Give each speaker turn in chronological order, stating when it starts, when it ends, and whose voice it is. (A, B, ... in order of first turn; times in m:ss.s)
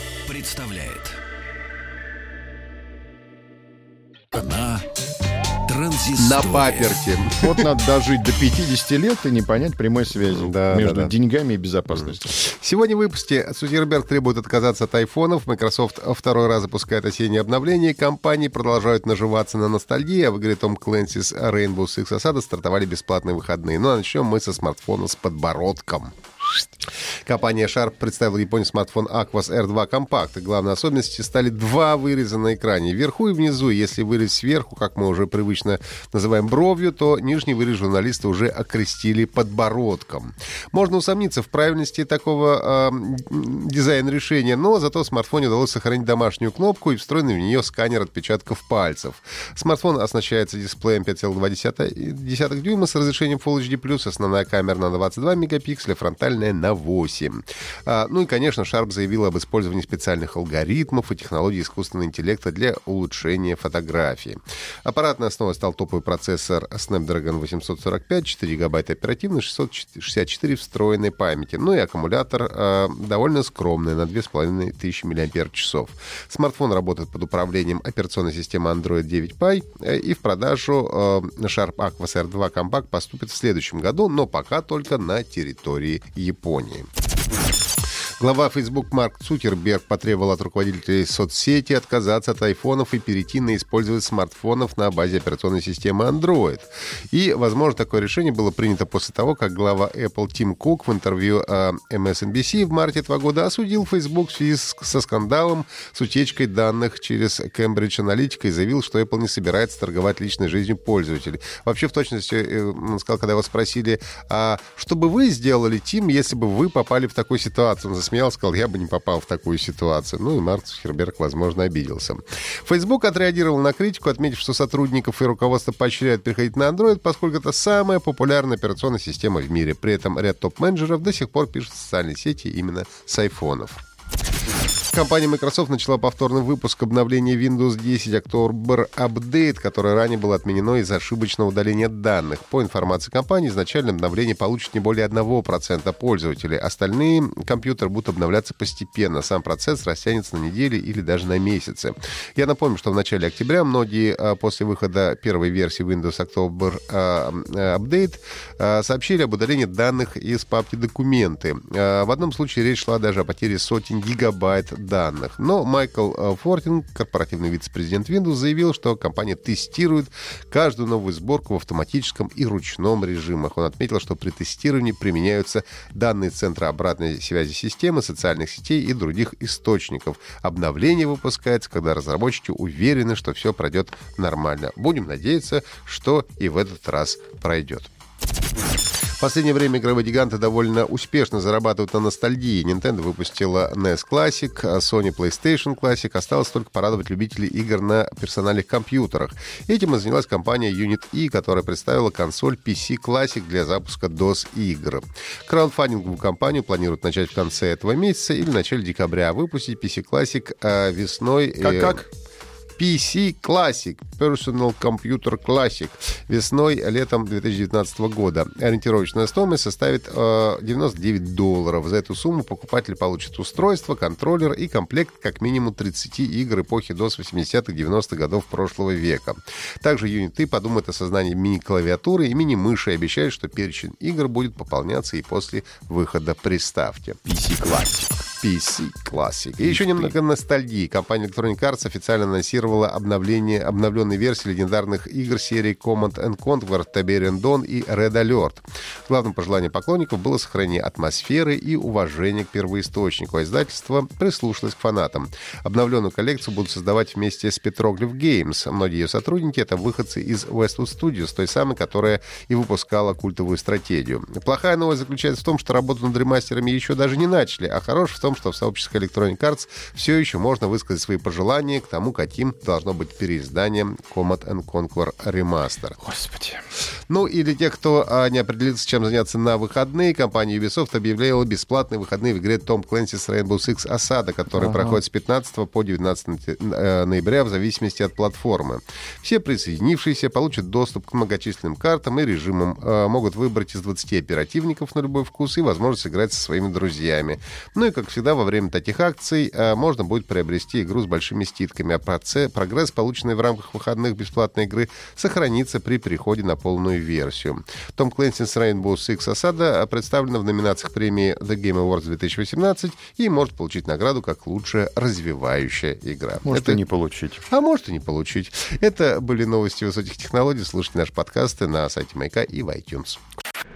0:00.3-0:01.2 A
0:04.3-0:04.9 A
0:05.7-0:07.0 A
0:06.2-0:07.7 B
0:07.3-0:12.3 C
0:10.3-0:11.1 B
0:11.9-0:26.2 B
0:27.2-1:26.9 B
1:28.2-2:13.8 B
2:14.9-3:07.9 B
3:09.2-3:32.1 B
3:31.6-3:32.1 C
3:32.8-3:57.3 B
3:57.3-3:58.2 C
3:58.3-4:36.0 B
3:59.6-4:00.1 C
4:36.0-4:36.6 C
4:37.1-5:16.8 B
4:44.6-4:45.0 C
5:16.4-5:17.4 C
5:17.5-5:23.2 B